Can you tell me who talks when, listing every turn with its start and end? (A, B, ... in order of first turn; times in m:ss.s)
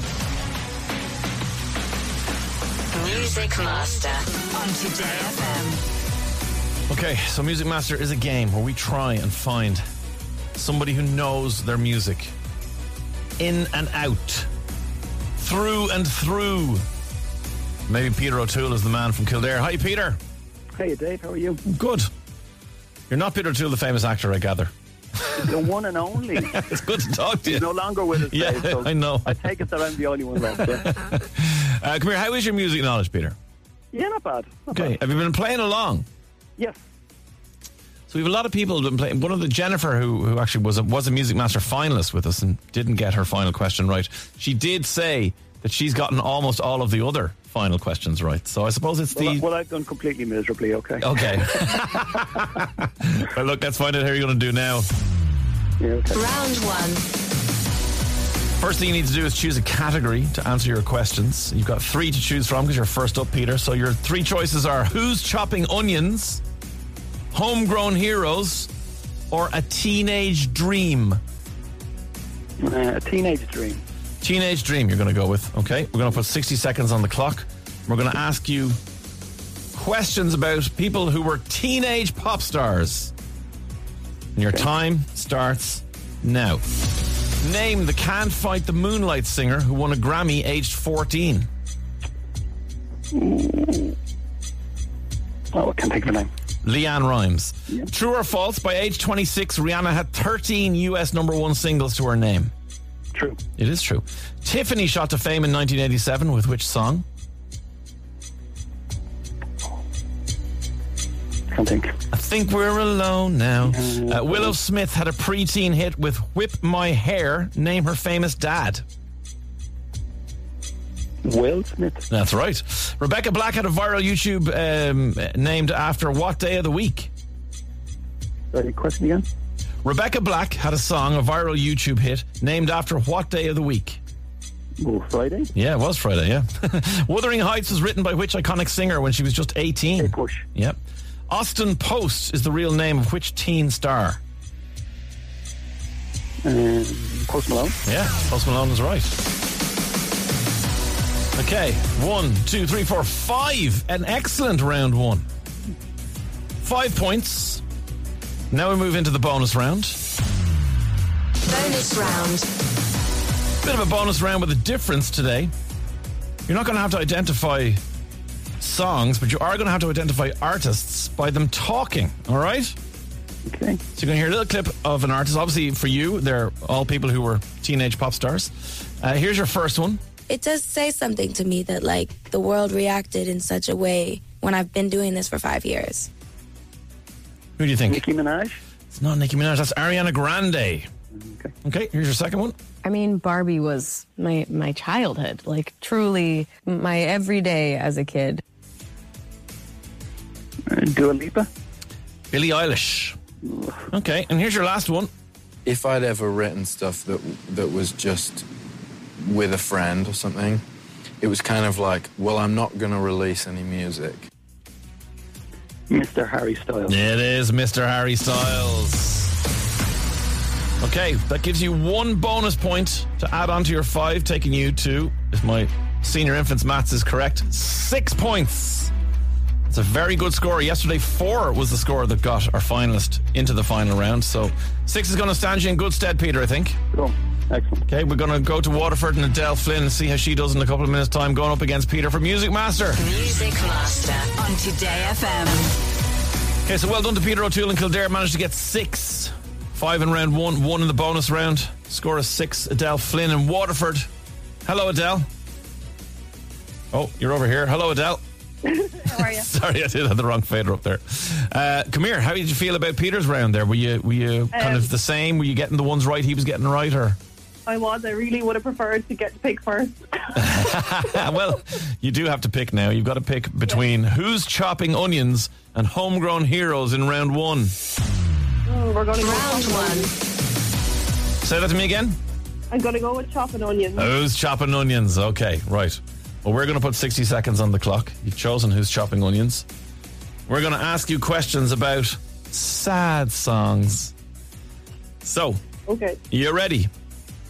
0:02.9-0:05.8 A
0:06.9-0:09.8 B
0:10.5-0:12.3 B
0:13.4-0:14.5 B
0:15.4-0:16.8 B
0:17.9-0:20.2 B
0:20.8-0:21.6 C
0:21.7-0:22.1 B
0:23.1-0:24.7 B
0:25.5-0:26.6 C
0:26.5-0:27.7 B
0:27.4-0:31.0 C
0:28.2-0:29.4 B
0:31.0-0:33.4 B
0:33.9-0:34.9 C
0:34.7-0:36.0 B
0:38.1-0:49.4 B
0:49.1-0:51.3 C
0:51.0-0:54.9 B
0:55.8-0:56.2 C
0:56.1-0:57.0 A
0:58.6-1:06.4 B
1:07.3-1:08.7 B
1:09.3-1:11.2 B
1:12.6-1:13.8 C
1:14.2-1:18.8 B
1:19.7-1:23.1 B
1:24.4-1:26.6 B
1:27.4-1:31.5 B
1:33.1-1:34.0 C
1:35.5-1:36.3 C
1:36.6-1:42.5 B
1:43.1-1:43.4 C
1:43.6-1:47.0 B
1:51.5-1:51.9 C
1:52.1-1:58.8 B
1:53.6-1:54.6 C
2:01.2-2:02.0 C
2:02.1-2:07.1 B
2:08.5-2:09.2 C
2:09.8-2:14.0 B
2:14.8-2:15.5 C
2:15.5-2:24.2 B
2:20.0-2:20.4 C
2:26.4-2:27.7 C
2:27.8-2:29.2 B
2:31.4-2:35.2 B
2:36.6-2:37.6 B
2:38.5-2:40.0 B
2:41.5-2:42.4 A
2:43.6-2:45.5 B
2:46.5-2:47.8 B
2:48.6-2:52.7 B
2:53.5-2:53.8 C
2:53.9-3:00.0 B
3:00.3-3:06.1 D
3:07.6-3:08.0 B
3:07.9-3:08.6 C
3:08.9-3:10.9 B
3:11.2-3:11.5 C
3:11.6-3:12.6 B
3:12.8-3:18.4 E
3:20.7-3:21.5 C
3:22.3-3:23.2 B
3:23.4-3:23.8 C
3:23.9-3:25.1 B
3:25.6-3:28.4 F
3:29.2-3:30.6 F
3:31.2-3:34.3 F
3:35.9-3:37.0 C
3:36.9-3:39.3 B
3:40.8-3:48.9 B
3:49.7-3:56.8 B
3:56.9-3:57.8 C
3:57.9-4:03.1 B
4:03.0-4:05.7 A
4:06.6-4:14.1 B
4:14.6-4:15.3 B
4:16.9-4:18.2 B
4:18.6-4:19.5 G
4:19.1-4:27.2 B
4:24.5-4:24.9 G
4:27.6-4:30.4 G
4:30.4-4:37.7 B
4:38.7-4:40.1 G
4:39.2-4:40.0 A
4:41.4-4:42.2 B
4:42.7-4:44.1 G
4:44.0-4:49.7 B
4:50.5-4:54.1 B
4:55.2-4:55.6 B
4:55.9-4:56.2 G
4:56.3-4:56.9 B